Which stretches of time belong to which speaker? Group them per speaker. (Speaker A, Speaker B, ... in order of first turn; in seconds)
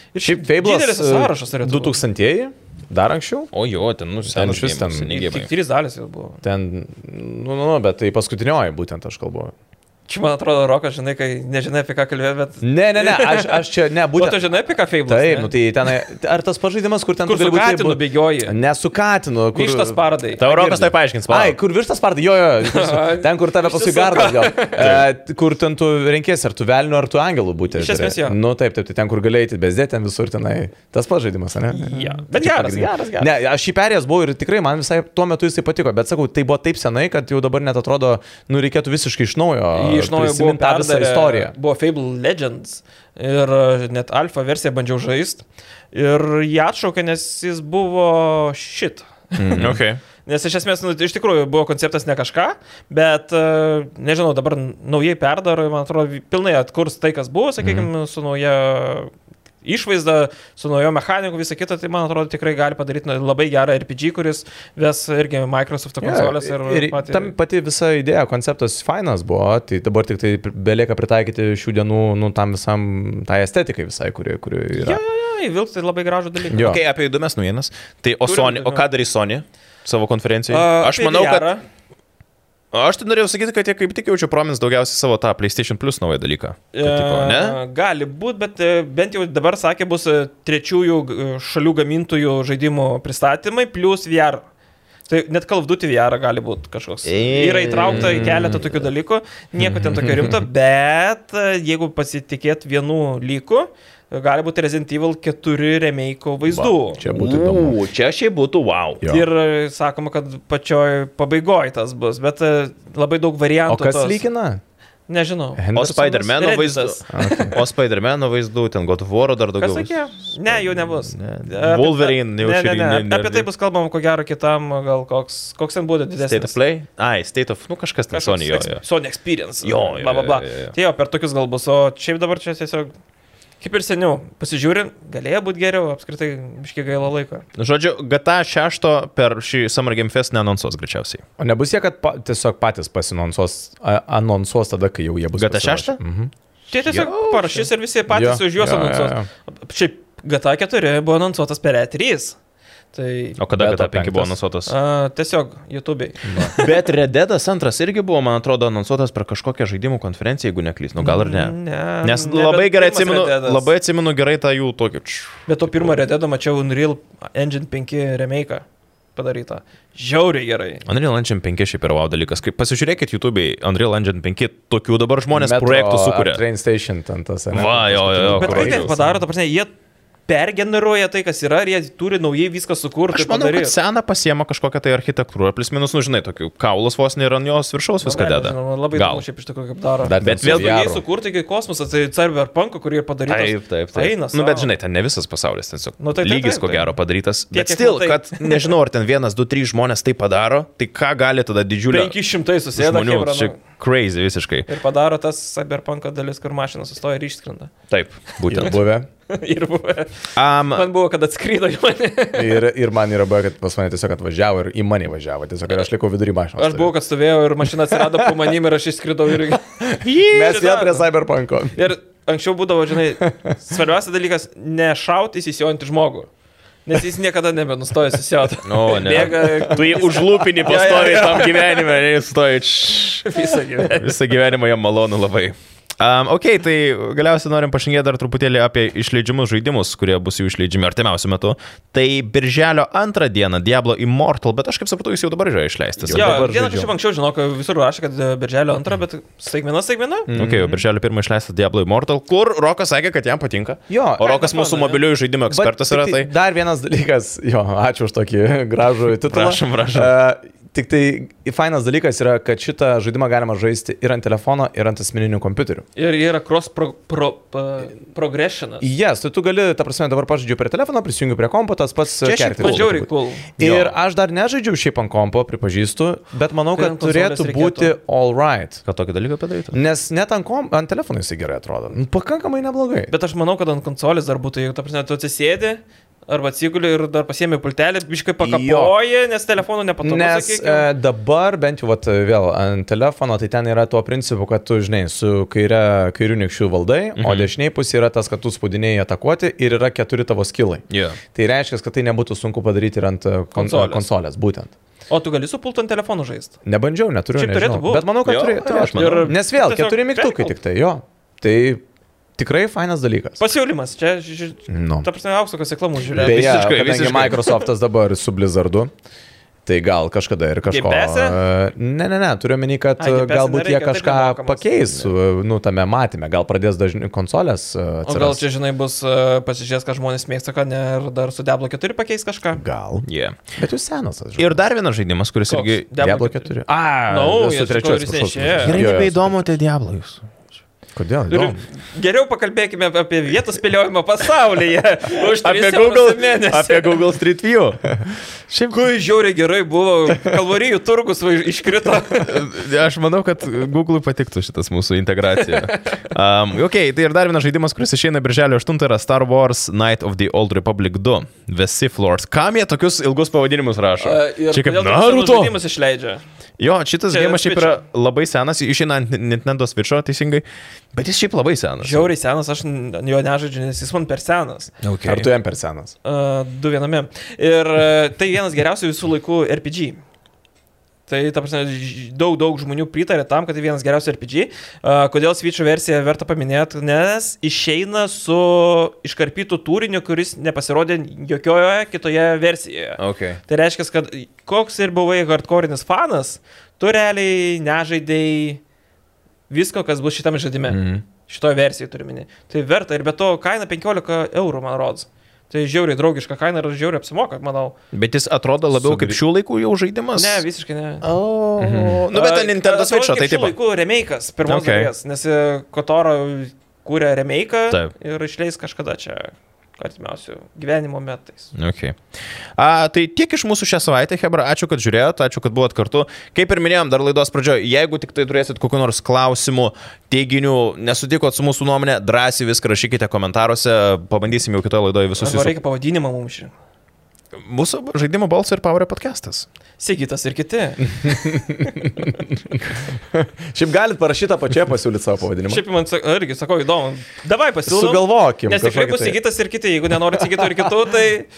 Speaker A: 0.1-2.0, 5.1-6.4, 10.1-15.5, 17.2-18.5, 19.5-20.4, 22.6-24.9, 27.7-28.4, 31.7-33.3, 39.7-49.6, 50.2-59.1, 59.6-67.3, 74.7-76.7, 78.2-78.8, 80.5-81.6, 86.7-94.4, 95.1-107.0, 109.0-114.2, 115.1-117.5, 119.6-126.5, 128.1-132.9, 133.6-137.4, 146.7-152.4, 152.9-153.4, 154.7-156.8, 161.0-163.7, 165.5-168.6, 169.2-170.8, 178.2-179.7, 180.3-183.7, 188.0-194.7, 196.0-196.9, 197.5-198.7, 201.9-203.6, 204.7-207.7, 209.3-212.6, 216.6-219.6, 220.3-221.1, 221.7-226.3, 226.8-231.8, 233.2-234.1, 246.0-250.3, 254.2-255.0, 265.9-268.9, 272.6-273.5, 276.7-277.9, 283.1-290.9, 303.5-304.1, 305.1-306.6, 307.3-308.1, 308.8-310.5, 313.4-316.7, 320.7-321.4, 323.0-324.7, 328.0-332.6, 335.5-338.8, 341.3-347.0, 348.7-352.3, 355.3-356.0, 364.0-366.2, 367.1-367.8, 371.8-374.7, 376.0-380.0, 381.1-398.6, 399.5-407.7, 410.1-411.1, 412.1-421.5, 435.2-436.5, 439.8-442.1, 445.5-451.3
Speaker B: 0.2-3.5, 4.2-5.1, 6.4-9.5, 12.6-14.4, 15.1-41.5, 49.3-49.8, 66.0-75.0, 76.5-76.8, 97.9-98.4, 99.7-100.4, 106.5-107.8, 109.0-109.3, 113.7-114.6, 115.6-116.2, 117.1-117.6, 141.4-146.3, 148.1-149.3, 153.5-154.3, 156.2-156.5, 175.3-179.0, 190.0-191.0, 208.5-209.1, 212.3-216.9, 219.8-221.8, 246.1-246.9, 250.3-250.8, 253.9-254.4, 255.5-265.9, 268.8-278.8, 279.7-283.1, 288.4-288.9, 290.0-304.7, 306.6-311.8, 312.4-313.4, 314.7-315.1, 316.1-318.9, 319.6-328.4, 332.6-333.1, 333.6-334.6, 336.0-339.4, 340.9-341.6, 375.0-375.9, 400.7-401.0, 408.7-409.2, 411.6-412.1, 441.0-445.6, 447.7-449.2, 450.2-450.7
Speaker C: 3.5-5.5, 20.4-21.6, 24.7-25.1, 49.6-50.0, 76.5-81.5, 82.7-87.6, 97.0-98.8, 107.0-109.0, 115.7-117.0, 117.5-123.5, 126.2-128.8, 129.6-130.7, 137.6-141.2, 145.4-146.0, 146.9-147.7, 153.4-154.7, 156.6-165.9, 170.8-176.4, 177.5-178.9, 183.1-189.2, 190.2-190.8, 193.3-202.2, 202.8-204.7, 207.9-208.8, 210.3-210.9, 220.0-220.6, 228.6-246.4, 250.3-256.3, 259.3-260.1, 272.2-272.9, 273.6-273.9, 278.9-279.8, 297.2-297.5, 300.9-301.2, 308.2-309.3, 316.1-317.5, 333.1-333.4, 334.4-335.9, 338.6-340.3, 345.1-348.0, 348.5-348.8, 352.1-365.6, 366.6-372.1, 374.8-375.3, 393.0-393.4, 407.9-410.4, 411.0-413.5, 414.5-414.9, 421.5-422.0, 422.6-435.6, 437.4-439.4